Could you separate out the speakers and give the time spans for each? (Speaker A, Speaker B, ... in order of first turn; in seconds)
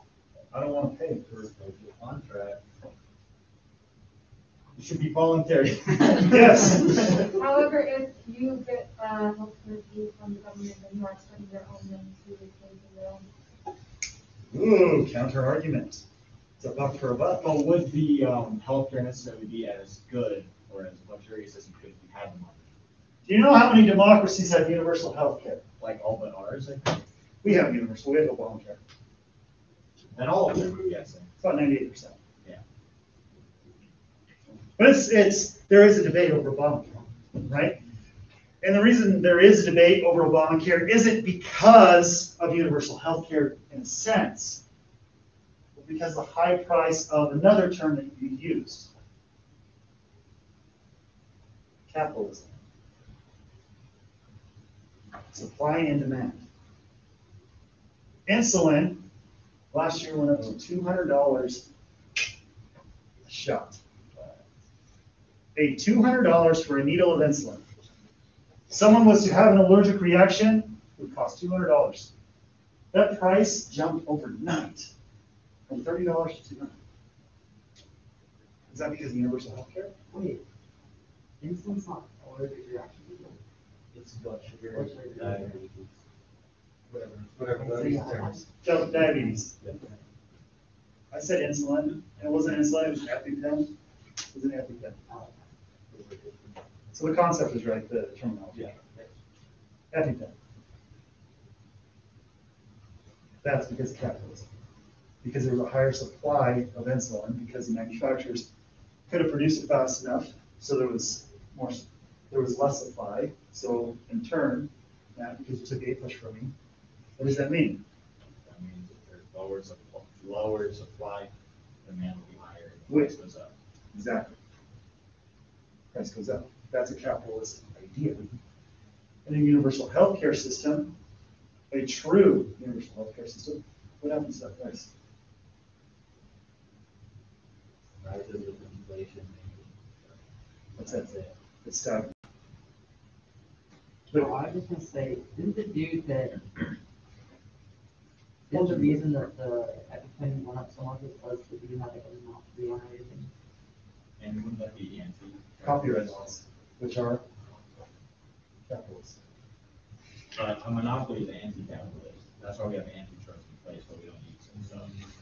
Speaker A: 0.5-1.3, 6.2-7.2, 14.5-16.0, 16.6-17.5, 23.2-25.6, 27.4-28.8, 31.4-32.2, 34.8-37.8, 38.6-44.6, 45.8-48.9, 51.9-52.6, 55.3-56.4, 58.2-59.0, 59.7-61.7, 63.2-63.8, 65.5-67.6, 68.7-72.1, 72.9-74.9, 75.7-76.8, 78.7-79.9, 88.6-89.5, 91.1-93.7, 94.3-95.0, 96.9-98.8, 99.9-100.3, 103.4-104.5, 105.2-108.5, 109.1-116.5, 117.2-117.8, 122.9-123.2, 123.9-124.4, 125.9-128.3, 129.2-130.9, 131.7-134.9, 140.8-141.1, 141.6-142.1, 144.1-144.4, 148.5-149.0, 155.6-157.2, 158.7-159.2
Speaker B: 1.3-2.6, 4.8-7.1, 17.4-22.7, 25.8-27.0, 30.1-31.3, 83.9-85.9, 98.5-99.1, 118.4-121.3, 121.8-123.5, 154.2-156.3, 160.3-164.9
Speaker C: 7.2-13.3
Speaker D: 80.1-80.4, 81.4-83.4, 84.7-85.6, 87.4-89.5, 95.1-95.3, 144.1-146.4, 148.5-153.3
Speaker E: 138.0-140.1, 140.8-141.3